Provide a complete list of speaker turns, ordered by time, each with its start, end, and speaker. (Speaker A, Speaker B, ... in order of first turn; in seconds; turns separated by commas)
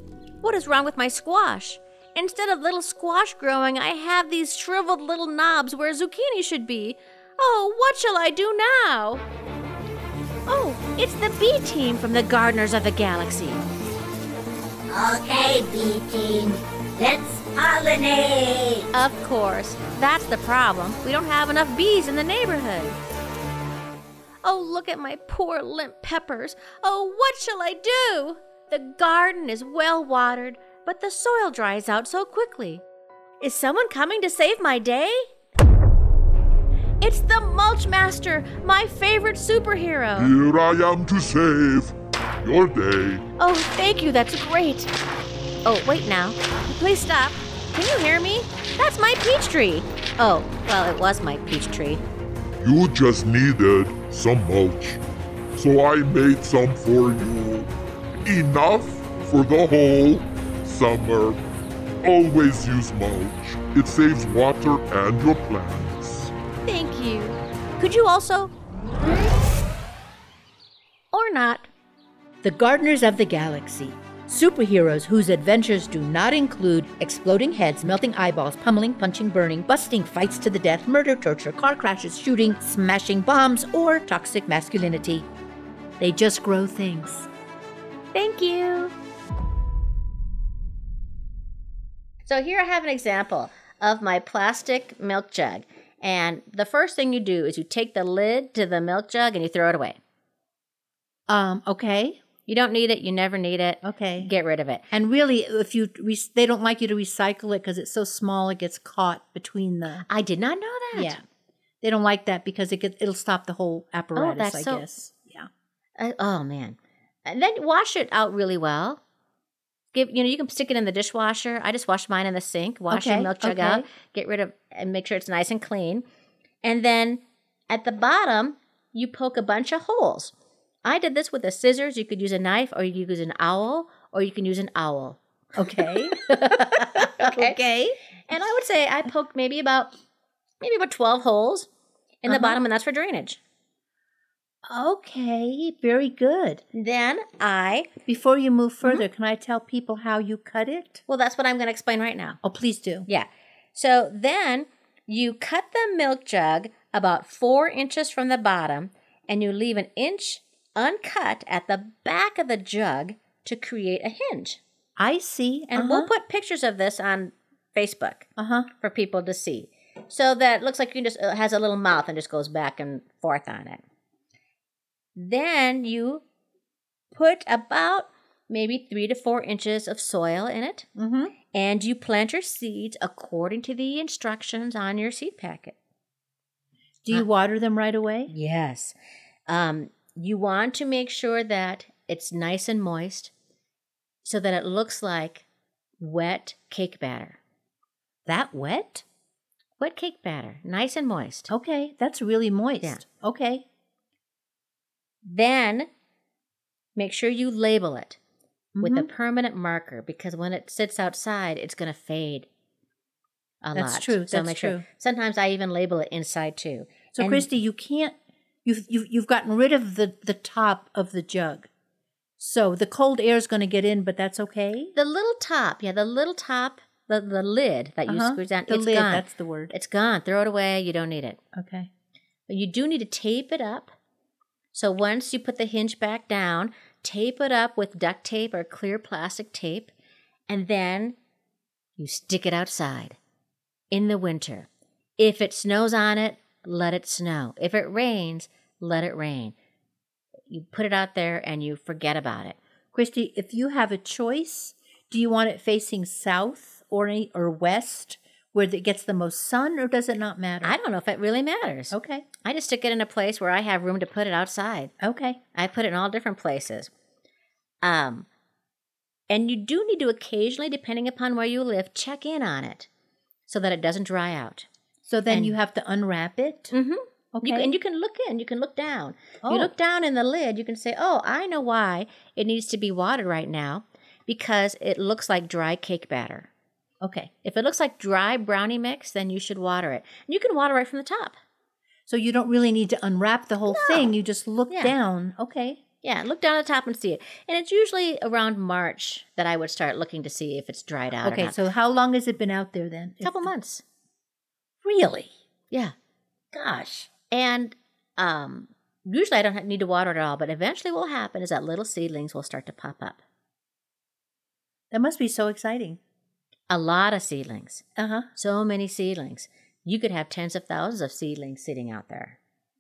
Speaker A: 0.4-9.2, Speaker A: 10.5-13.6, Speaker B: 14.9-18.8, Speaker A: 18.9-23.0, Speaker A: 24.4-32.8, Speaker A: 33.4-35.3, Speaker A: 37.0-40.3, Speaker C: 40.2-43.3, Speaker A: 43.4-44.9, Speaker A: 45.6-52.0, Speaker C: 52.6-55.0, Speaker C: 55.6-57.7, Speaker C: 58.2-61.4, Speaker C: 62.0-66.3, Speaker A: 66.7-68.5, Speaker A: 71.1-71.7, Speaker D: 72.4-85.3, Speaker D: 86.0-87.3, Speaker A: 88.1-88.9, Speaker A: 92.3-100.0, Speaker D: 101.3-102.2, Speaker A: 102.5-104.8, Speaker D: 103.8-104.3, Speaker D: 104.9-110.1, Speaker A: 110.1-111.2, Speaker D: 110.9-111.2, Speaker D: 111.8-115.5, Speaker A: 114.2-114.8, Speaker A: 116.0-119.0, Speaker A: 119.9-126.0, Speaker D: 122.9-123.9, Speaker A: 126.6-130.3, Speaker A: 130.8-135.2, Speaker D: 135.6-138.0, Speaker A: 135.8-137.6, Speaker A: 138.3-139.9, Speaker A: 140.6-141.7, Speaker A: 142.2-143.4, Speaker D: 142.3-142.6, Speaker D: 144.7-146.6, Speaker A: 146.7-147.9, Speaker D: 148.1-151.0, Speaker A: 151.1-152.4, Speaker D: 152.4-153.1, Speaker A: 153.1-164.6, Speaker D: 165.0-166.1, Speaker A: 165.7-168.3, Speaker D: 168.4-168.7, Speaker A: 168.8-173.8, Speaker A: 175.2-176.2, Speaker A: 177.1-180.9, Speaker D: 181.0-181.3, Speaker A: 181.5-185.8, Speaker D: 187.0-188.3, Speaker A: 188.3-188.9, Speaker A: 189.5-193.3, Speaker A: 194.2-195.4, Speaker A: 196.0-197.4, Speaker D: 198.3-199.1, Speaker A: 199.8-201.5, Speaker D: 201.5-203.6, Speaker A: 205.2-205.9, Speaker A: 207.0-208.2, Speaker D: 208.8-209.1, Speaker A: 208.8-212.5, Speaker A: 213.6-217.5, Speaker D: 213.8-214.8, Speaker D: 217.2-221.7, Speaker D: 222.4-224.9, Speaker A: 225.0-231.4, Speaker D: 228.1-229.7, Speaker D: 231.5-231.9, Speaker A: 232.5-233.9, Speaker A: 234.7-239.9, Speaker A: 240.5-241.2, Speaker A: 242.0-243.2, Speaker A: 243.9-249.5, Speaker A: 250.5-252.6, Speaker D: 252.9-260.8, Speaker A: 260.6-264.9, Speaker D: 261.9-262.3, Speaker D: 265.0-265.4, Speaker A: 265.5-266.9, Speaker A: 267.8-268.3, Speaker A: 269.3-272.9, Speaker A: 273.5-274.7, Speaker D: 275.1-276.7, Speaker A: 275.3-275.6, Speaker A: 276.7-286.5, Speaker D: 277.3-277.7, Speaker D: 279.4-279.7, Speaker D: 287.0-287.3, Speaker A: 287.4-291.4, Speaker D: 292.1-295.8, Speaker A: 293.7-294.1, Speaker A: 296.0-301.6, Speaker D: 301.2-303.5, Speaker A: 303.2-303.8, Speaker D: 304.8-305.3, Speaker D: 306.5-307.1, Speaker A: 307.3-313.2, Speaker D: 314.9-316.0, Speaker A: 316.7-317.8, Speaker D: 318.0-318.3, Speaker A: 318.4-322.4